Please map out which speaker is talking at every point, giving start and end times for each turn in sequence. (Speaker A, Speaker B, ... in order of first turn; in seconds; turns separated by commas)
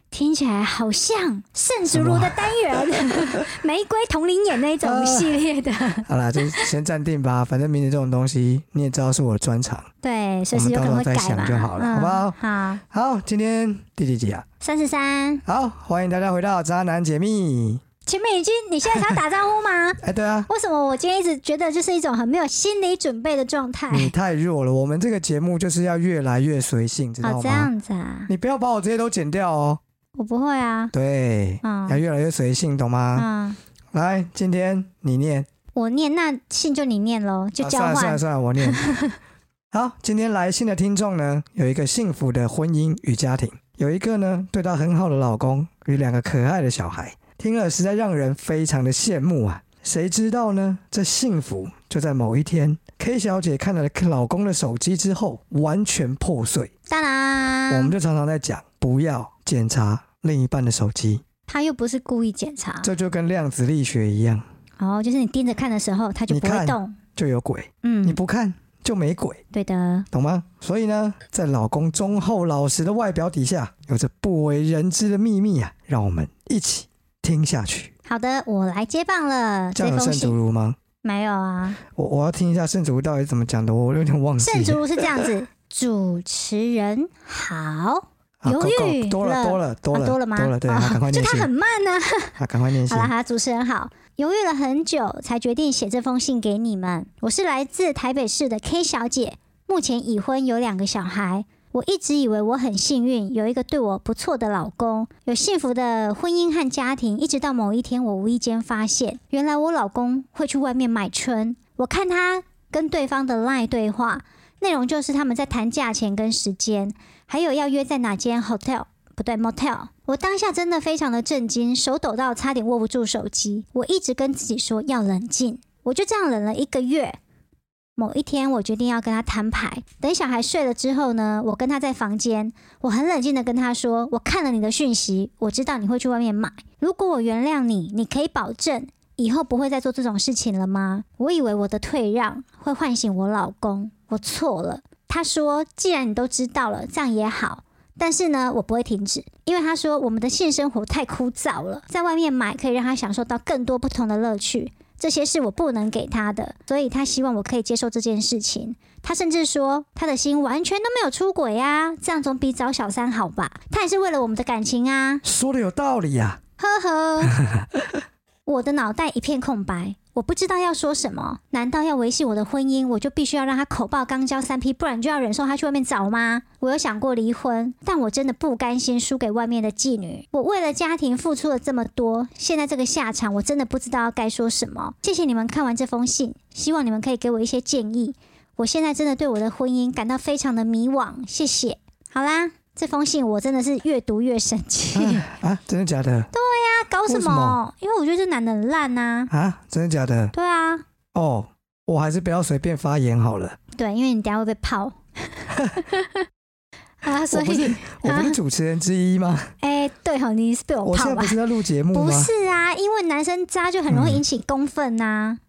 Speaker A: 0.1-6.7, Speaker B: 1.9-3.5, Speaker B: 4.8-5.4, Speaker B: 6.0-9.9, Speaker A: 10.0-12.8, Speaker B: 10.5-14.4, Speaker A: 14.6-15.4, Speaker B: 15.4-17.8, Speaker A: 18.1-24.1, Speaker B: 20.0-20.5, Speaker B: 23.9-27.7, Speaker A: 27.2-28.3, Speaker B: 28.3-29.8, Speaker A: 30.2-30.9, Speaker B: 30.9-33.3, Speaker A: 31.6-32.0, Speaker A: 33.1-33.6, Speaker B: 33.9-35.5, Speaker A: 35.7-39.1, Speaker B: 37.6-38.8, Speaker B: 39.7-56.7, Speaker A: 56.9-57.9, Speaker B: 57.7-61.2, Speaker A: 61.5-62.9, Speaker B: 62.8-64.4, Speaker A: 64.8-67.0, Speaker B: 66.3-69.4, Speaker A: 67.8-68.2, Speaker A: 69.5-70.0, Speaker B: 70.1-77.9, Speaker A: 78.1-80.3, Speaker B: 79.7-80.8, Speaker A: 81.0-81.8, Speaker B: 81.9-85.3, Speaker A: 84.4-92.4, Speaker B: 88.4-91.5, Speaker B: 92.4-93.1, Speaker A: 92.9-127.2, Speaker A: 128.0-165.2, Speaker B: 165.2-166.4, Speaker A: 166.6-167.4, Speaker B: 167.2-168.0, Speaker A: 168.4-195.3, Speaker B: 194.9-196.3, Speaker A: 196.3-199.3, Speaker B: 197.1-197.6, Speaker B: 199.3-200.3, Speaker A: 200.3-200.8, Speaker B: 201.1-203.6, Speaker A: 203.8-205.4, Speaker B: 205.5-205.8, Speaker A: 207.0-208.4, Speaker B: 207.3-209.5, Speaker A: 209.6-211.4, Speaker B: 210.8-212.3, Speaker A: 211.9-215.4, Speaker B: 213.9-214.2